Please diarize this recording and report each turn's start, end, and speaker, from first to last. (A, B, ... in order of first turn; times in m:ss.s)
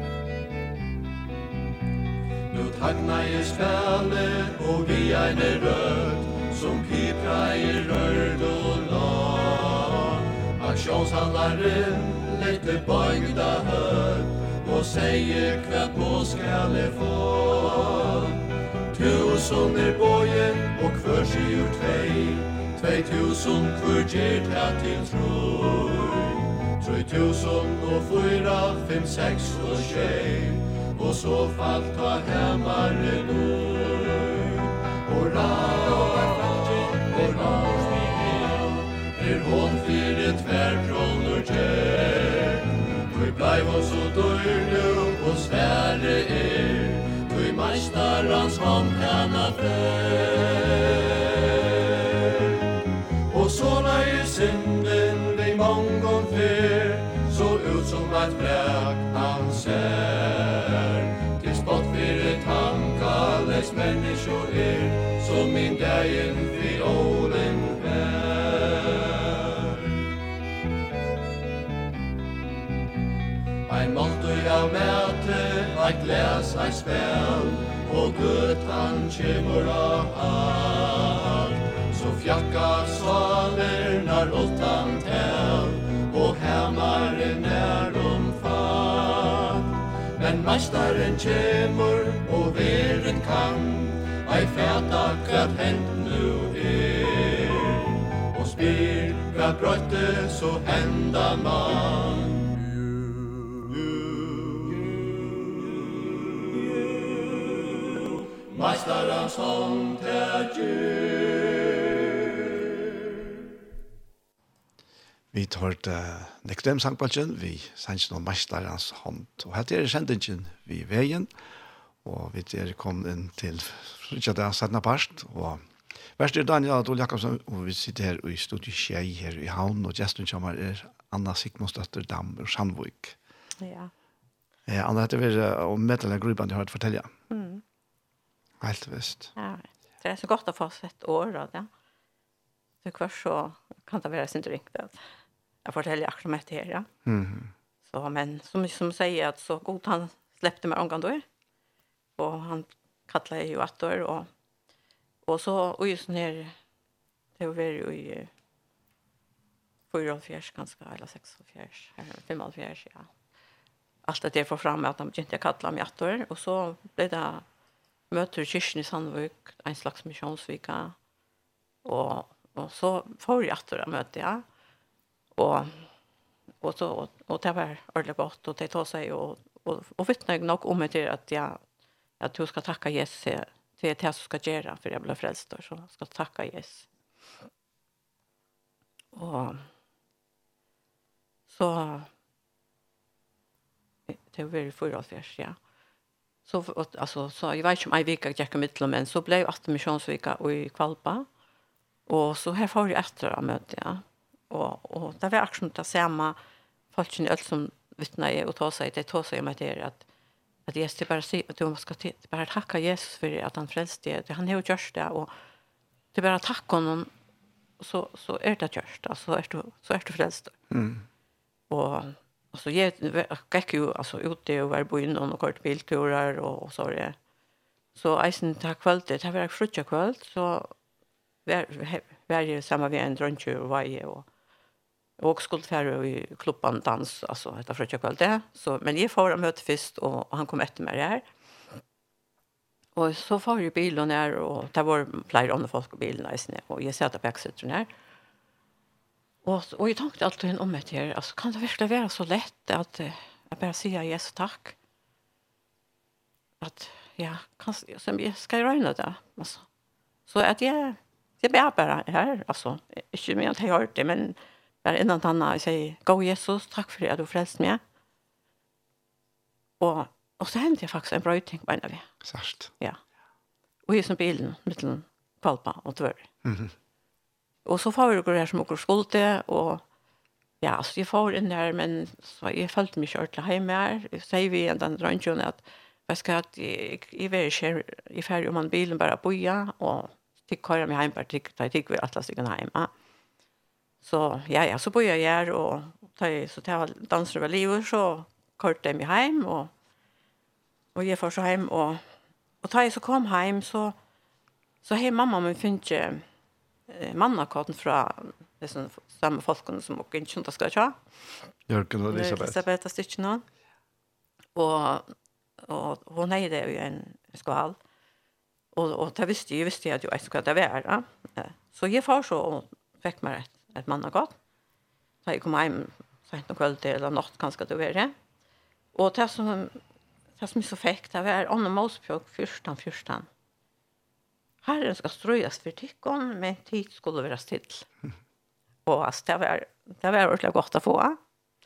0:02.5-0:52.6 A
0:53.3-1:09.7 A
1:13.6-1:42.6 A
1:43.8-1:44.9 A
1:48.4-1:51.7 A
1:55.3-2:01.3 B
2:02.0-2:05.6 B
2:06.2-2:13.2 B
2:13.6-2:13.9 C
2:14.7-2:17.1 B
2:17.3-2:17.6 C
2:18.6-2:19.3 B
2:19.4-2:21.7 C
2:22.8-2:25.0 C
2:25.6-2:26.9 C
2:27.0-2:27.5 B
2:27.9-2:31.2 C
2:32.2-2:34.3 C
2:35.2-2:36.5 C
2:37.4-2:38.3 C
2:39.9-2:43.1 C
2:44.0-2:47.4 C
2:48.1-2:50.9 C
2:51.8-2:54.4 C
2:55.4-2:55.8 C
2:56.6-3:01.6 C
3:02.2-3:06.9 C
3:09.1-3:09.6 C
3:11.5-3:12.1 C
3:14.1-3:15.6 C
3:16.4-3:21.2 C
3:22.1-3:26.4 C
3:26.9-3:30.0 C
3:30.7-3:35.3 C
3:36.1-3:37.1 C
3:37.8-3:40.6 C
3:40.7-3:41.0 B
3:41.7-3:47.2 C
3:47.9-3:50.7 C
3:51.4-3:54.2 C
3:55.2-4:01.2 C
4:03.0-4:07.9 C
4:09.4-4:14.7 C
4:16.6-4:19.6 C
4:20.3-4:27.8 C
4:29.8-4:32.1 C
4:32.2-4:32.7 B
4:33.9-4:36.3 C
4:36.4-4:36.7 B
4:37.6-4:39.8 C
4:40.6-4:52.9 C
4:54.0-4:59.7 C
5:00.9-5:02.0 C
5:02.6-5:03.9 C
5:04.8-5:06.2 C
5:06.9-5:11.0 C
5:11.7-5:12.6 B
5:12.1-5:13.4 C
5:14.6-5:15.1 C
5:15.6-5:17.8 C
5:18.7-5:24.3 C
5:25.2-5:28.1 C
5:28.9-5:29.8 C
5:30.4-5:33.3 C
5:34.6-5:37.9 C
5:38.8-5:41.2 C